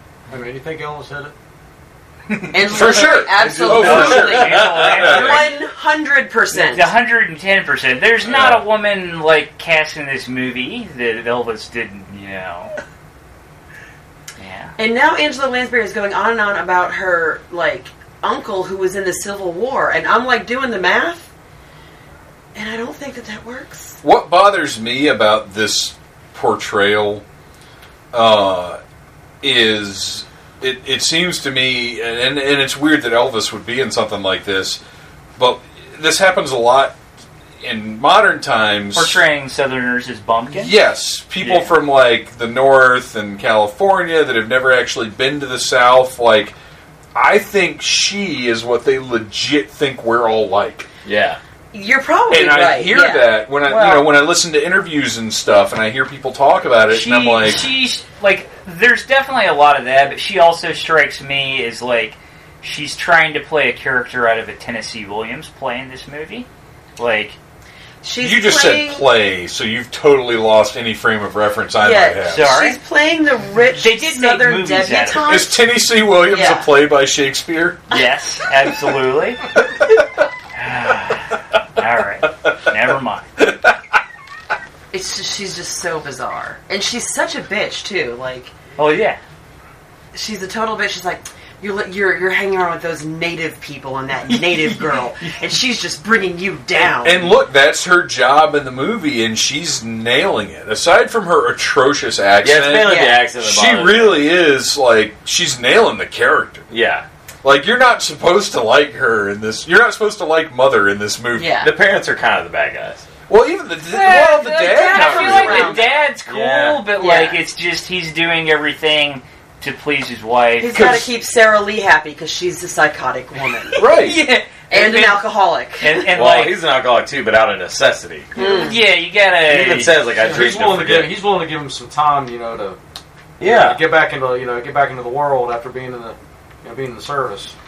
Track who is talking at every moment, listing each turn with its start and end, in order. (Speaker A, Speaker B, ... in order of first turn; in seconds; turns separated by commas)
Speaker A: 0.3-1.3, Speaker B: 2.5-6.9, Speaker C: 2.6-5.5, Speaker D: 2.7-5.6, Speaker E: 3.4-5.1, Speaker D: 6.5-12.8, Speaker E: 8.2-8.6, Speaker D: 14.4-14.8, Speaker B: 14.8-21.3, Speaker B: 22.6-24.0, Speaker C: 24.0-27.2, Speaker C: 28.1-28.8, Speaker C: 29.4-34.8, Speaker C: 35.4-37.0, Speaker C: 37.6-39.2, Speaker D: 38.9-40.8, Speaker C: 40.5-46.5, Speaker E: 41.4-41.7, Speaker C: 47.1-50.9, Speaker E: 51.0-51.4, Speaker B: 51.7-54.1, Speaker C: 52.3-57.7, Speaker D: 56.9-67.4, Speaker B: 68.0-69.1, Speaker C: 68.2-72.5, Speaker B: 71.8-75.6, Speaker D: 72.3-72.8, Speaker D: 73.6-75.5, Speaker C: 75.2-77.8, Speaker B: 76.1-76.7, Speaker D: 77.9-79.6, Speaker D: 80.5-83.3, Speaker C: 83.4-83.8, Speaker B: 84.9-88.6, Speaker D: 88.8-89.2, Speaker B: 90.1-97.4, Speaker D: 94.3-95.0, Speaker C: 97.0-106.7, Speaker E: 102.4-104.3, Speaker B: 102.8-103.3, Speaker E: 106.7-107.1, Speaker C: 107.4-111.6, Speaker B: 111.3-111.7, Speaker E: 111.6-113.1, Speaker C: 113.3-115.9, Speaker D: 113.9-120.9, Speaker B: 114.5-116.0, Speaker E: 116.3-116.9, Speaker B: 117.0-117.4, Speaker B: 120.6-123.8, Speaker C: 120.7-121.1, Speaker D: 123.7-126.6, Speaker C: 123.8-124.2, Speaker B: 124.7-126.2, Speaker E: 126.1-128.4, Speaker B: 128.3-128.8, Speaker D: 128.3-130.4, Speaker E: 129.4-131.2, Speaker A: 130.2-132.8, Speaker E: 133.4-133.8, Speaker A: 133.4-137.5